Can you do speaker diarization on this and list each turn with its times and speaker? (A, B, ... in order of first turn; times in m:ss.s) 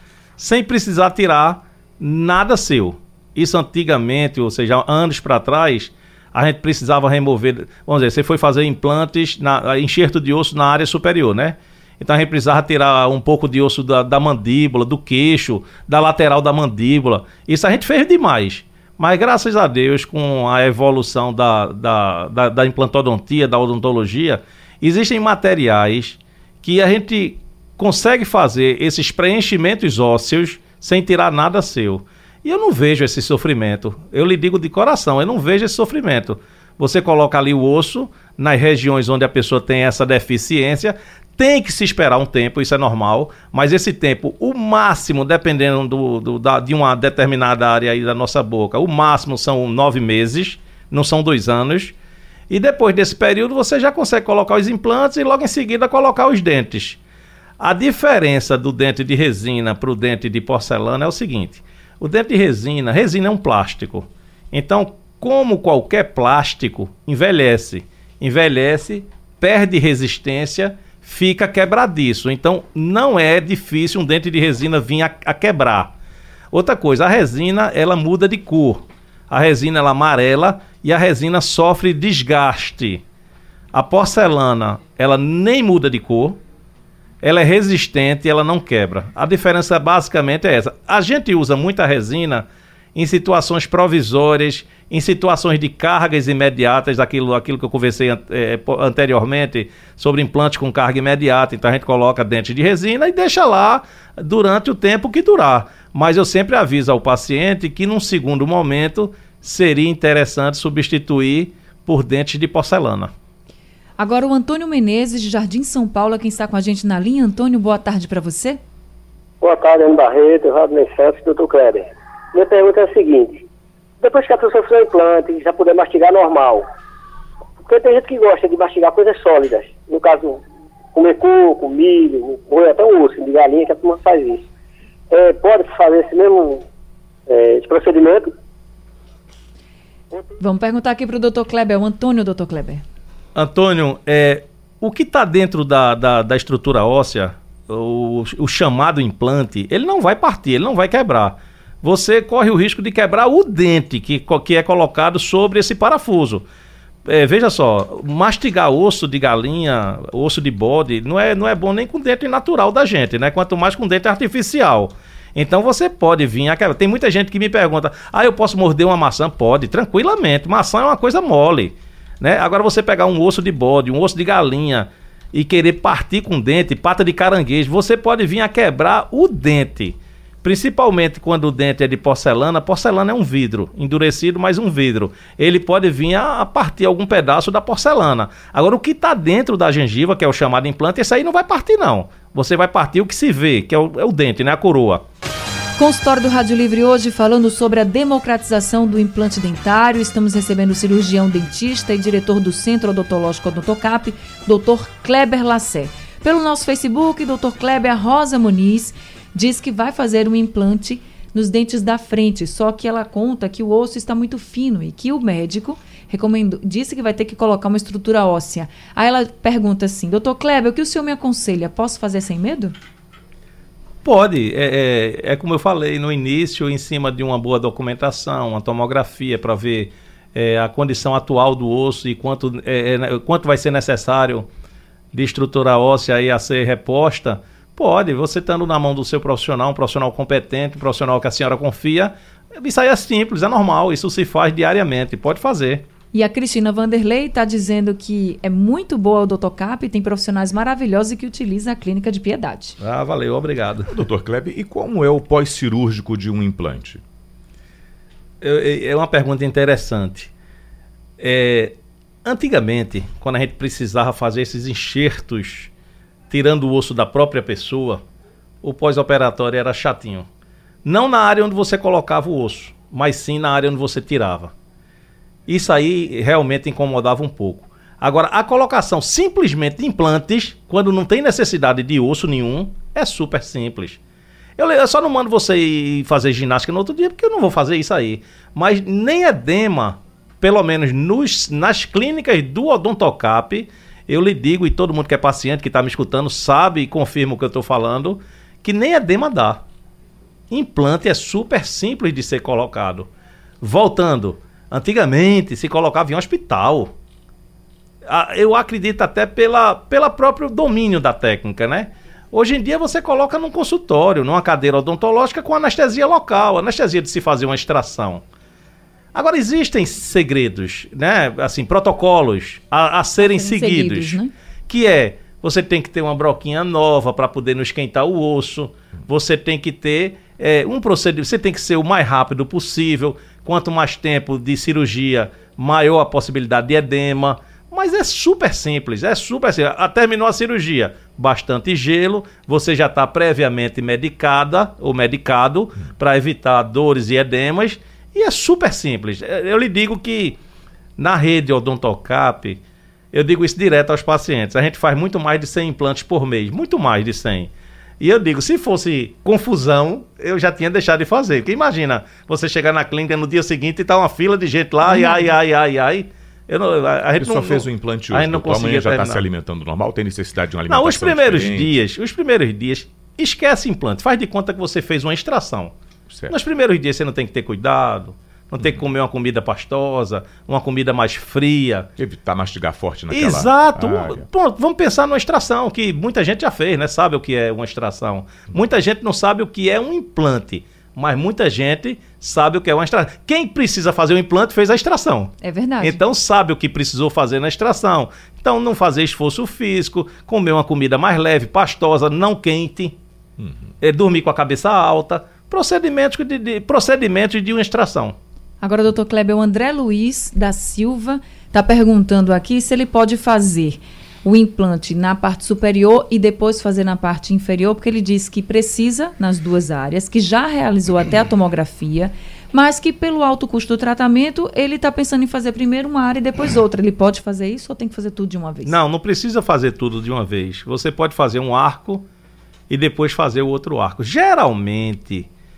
0:00.4-0:51.9 A
0:52.5-0:57.0 A
0:57.6-1:15.9 A
1:16.5-1:23.0 A
1:23.7-1:26.4 A
1:27.2-1:53.1 A
1:54.0-1:58.6 B
1:59.4-2:03.4 C
2:04.0-2:06.6 C
2:07.6-2:10.4 C
2:10.9-2:14.4 C
2:15.1-2:16.6 C
2:17.3-2:18.3 C
2:20.4-2:22.8 B
2:23.3-2:36.4 A
2:37.0-3:15.0 A
3:15.8-3:42.7 B
3:44.0-3:54.5 A
3:55.1-4:05.8 A
4:06.1-4:12.8 B
4:12.8-4:13.9 A
4:13.9-4:17.0 D
4:18.4-4:20.3 A
4:21.2-4:25.7 A
4:26.3-4:28.0 A
4:28.6-4:30.3 A
4:30.8-4:34.5 A
4:35.5-4:44.0 A
4:44.6-4:59.6 A
5:00.5-5:03.1 A
5:03.6-5:06.9 A
5:08.1-5:18.2 A
5:19.1-5:50.4 A
5:23.2-5:24.3 B
5:51.0-5:52.6 A
5:53.1-6:09.2 A
6:04.8-6:05.3 B
6:07.2-6:11.7 D
6:10.7-6:15.7 A
6:16.1-6:16.4 D
6:16.3-6:21.9 A
6:22.0-6:24.2 D
6:23.1-6:43.0 A
6:35.4-6:36.0 B
6:43.8-6:48.2 A
6:48.6-7:08.7 B
7:08.6-7:12.0 A
7:12.7-7:15.3 A